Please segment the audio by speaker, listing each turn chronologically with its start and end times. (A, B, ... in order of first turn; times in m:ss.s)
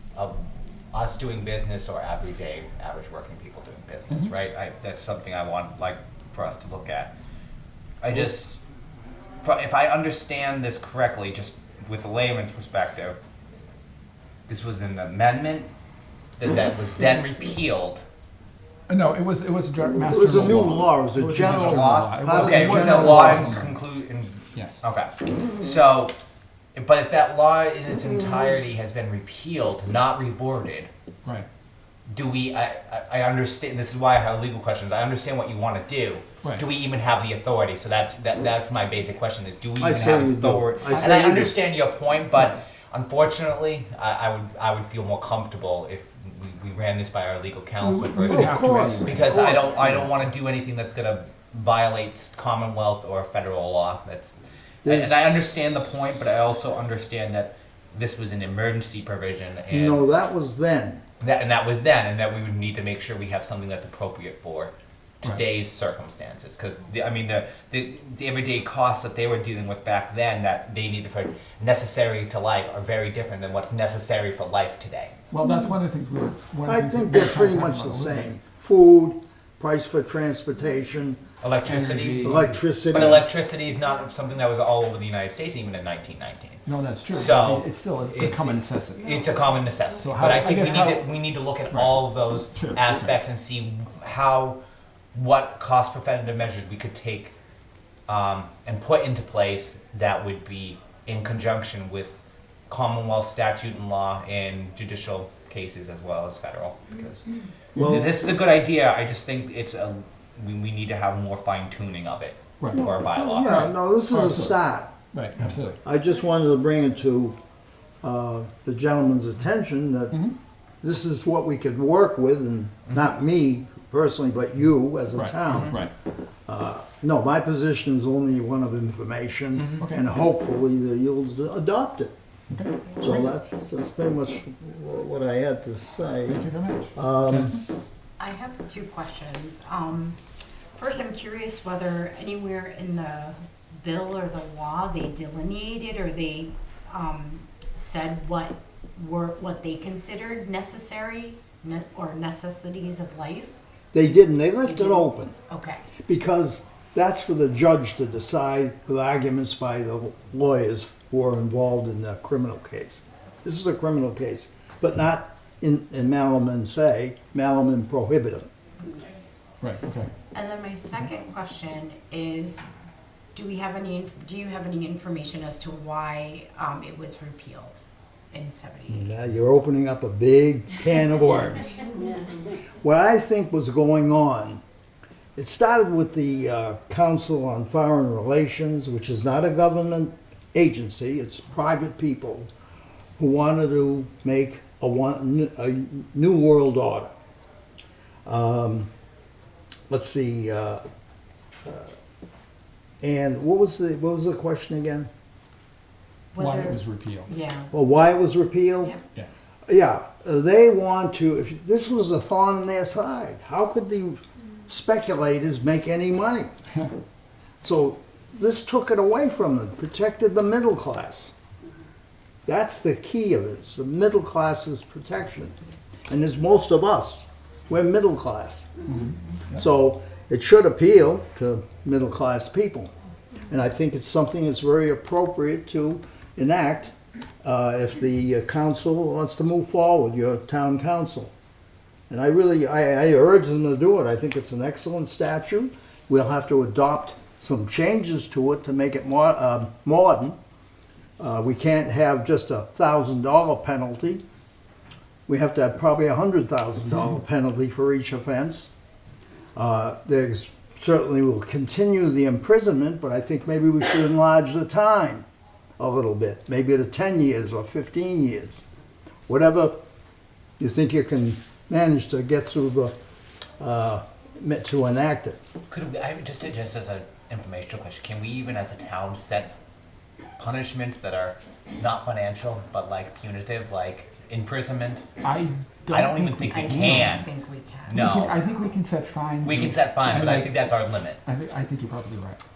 0:00.2-0:07.1 A
0:08.0-0:08.6 A
0:09.4-0:13.2 A
0:14.5-0:15.7 A
0:16.4-0:18.0 A
0:18.9-0:23.8 B
0:20.1-0:23.5 C
0:21.4-0:26.1 A
0:26.8-0:30.9 A
0:32.1-0:54.3 A
0:39.8-0:41.6 C
0:47.8-0:49.7 B
0:48.2-0:49.9 C
0:54.8-0:55.5 C
0:54.9-1:00.0 A
0:59.7-1:01.0 C
1:01.2-1:15.2 A
1:15.3-1:18.4 B
1:16.7-1:21.2 C
1:21.4-1:22.4 A
1:21.6-1:22.6 B
1:22.2-1:23.2 C
1:22.9-1:34.6 A
1:26.7-1:29.2 B
1:30.0-1:31.1 B
1:31.7-1:33.2 B
1:35.1-1:37.3 A
1:38.1-1:47.3 A
1:47.8-1:48.0 B
1:47.8-1:48.2 C
1:47.8-1:53.7 A
1:52.6-1:54.6 B
1:52.7-1:54.9 C
1:55.1-1:55.8 B
1:55.8-1:57.4 C
1:58.0-2:05.8 C
2:05.1-2:05.9 B
2:06.5-2:12.1 C
2:09.6-2:10.0 B
2:12.5-2:12.9 B
2:13.0-2:16.4 C
2:16.3-2:17.6 B
2:17.0-2:17.6 C
2:18.2-2:20.2 D
2:20.8-2:33.6 D
2:33.9-2:35.4 C
2:34.6-2:35.9 D
2:36.1-2:48.5 C
2:49.6-2:50.1 B
2:50.3-2:52.7 D
2:53.3-2:59.1 D
2:58.9-3:01.8 C
3:02.8-3:04.6 C
3:05.4-3:12.5 C
3:13.2-3:17.1 C
3:18.2-3:18.9 C
3:19.9-3:20.8 C
3:21.6-3:21.9 C
3:23.0-3:25.1 C
3:26.3-3:27.7 D
3:26.4-3:27.3 B
3:27.7-3:29.0 C
3:29.7-3:36.5 C
3:37.6-3:41.3 C
3:42.5-3:45.6 C
3:46.1-3:48.7 C
3:48.9-3:49.6 B
3:49.5-3:52.9 C
3:53.5-4:01.3 C
4:02.1-4:10.4 C
4:11.2-4:14.2 C
4:15.3-4:18.7 C
4:19.6-4:25.2 C
4:25.8-4:28.6 C
4:29.3-4:29.8 C
4:30.6-4:32.9 C
4:33.6-4:35.4 C
4:35.7-4:39.5 A
4:40.4-4:45.0 A
4:45.2-4:47.2 B
4:45.9-4:47.3 A
4:46.5-4:48.0 D
4:47.9-4:48.4 A
4:47.9-4:50.6 B
4:49.4-4:51.2 A
4:51.2-4:52.4 B